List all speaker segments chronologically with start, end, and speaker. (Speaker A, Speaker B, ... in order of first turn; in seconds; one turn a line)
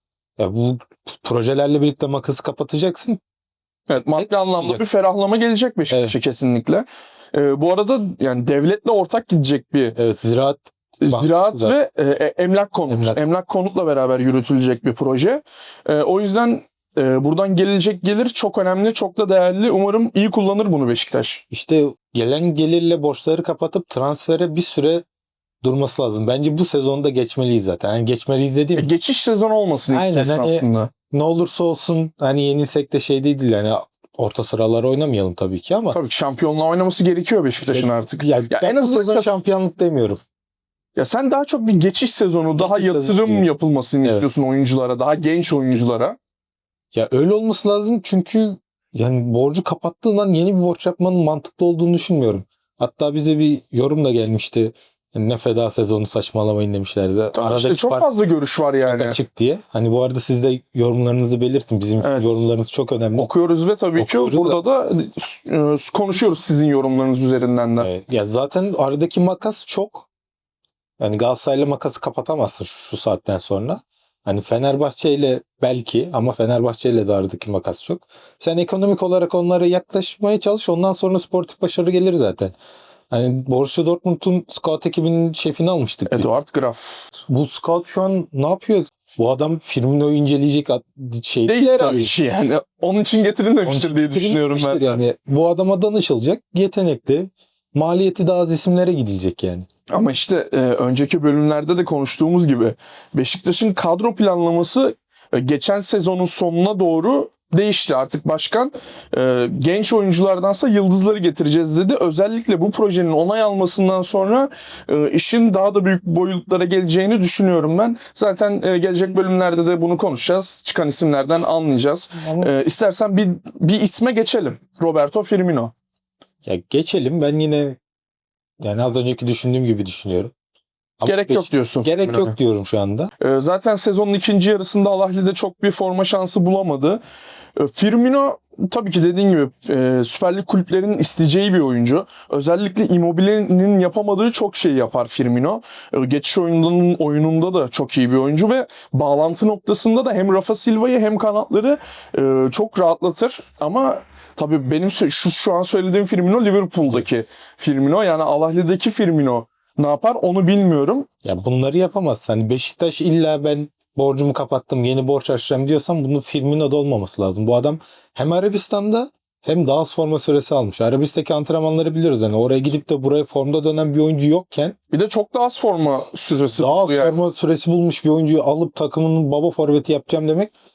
Speaker A: 0.4-3.2
Speaker B: 3.9-10.0
Speaker A: 4.2-4.8
Speaker A: 5.9-6.1
Speaker A: 9.9-11.8
Speaker B: 11.0-21.4
Speaker A: 12.9-13.2
Speaker A: 21.5-25.0
Speaker A: 25.6-28.9
Speaker B: 28.8-30.9
Speaker A: 29.9-36.0
Speaker B: 35.9-39.3
Speaker A: 37.6-40.2
Speaker B: 41.0-46.2
Speaker A: 42.6-43.5
Speaker A: 46.9-58.1
Speaker B: 57.3-59.2
Speaker A: 58.8-63.3
Speaker B: 62.0-62.4
Speaker B: 63.1-67.9
Speaker A: 64.0-64.6
Speaker A: 67.8-70.0
Speaker A: 71.0-82.5
Speaker A: 83.1-86.3
Speaker B: 86.1-87.2
Speaker A: 87.3-92.1
Speaker B: 91.5-95.0
Speaker A: 93.6-99.7
Speaker B: 99.9-125.7
Speaker A: 122.1-122.5
Speaker A: 126.5-127.8
Speaker A: 128.6-130.3
Speaker A: 131.0-133.1
Speaker B: 131.0-132.3
Speaker B: 133.2-137.0
Speaker B: 137.6-161.1
Speaker A: 161.2-174.8
Speaker B: 174.9-177.1
Speaker A: 176.5-180.5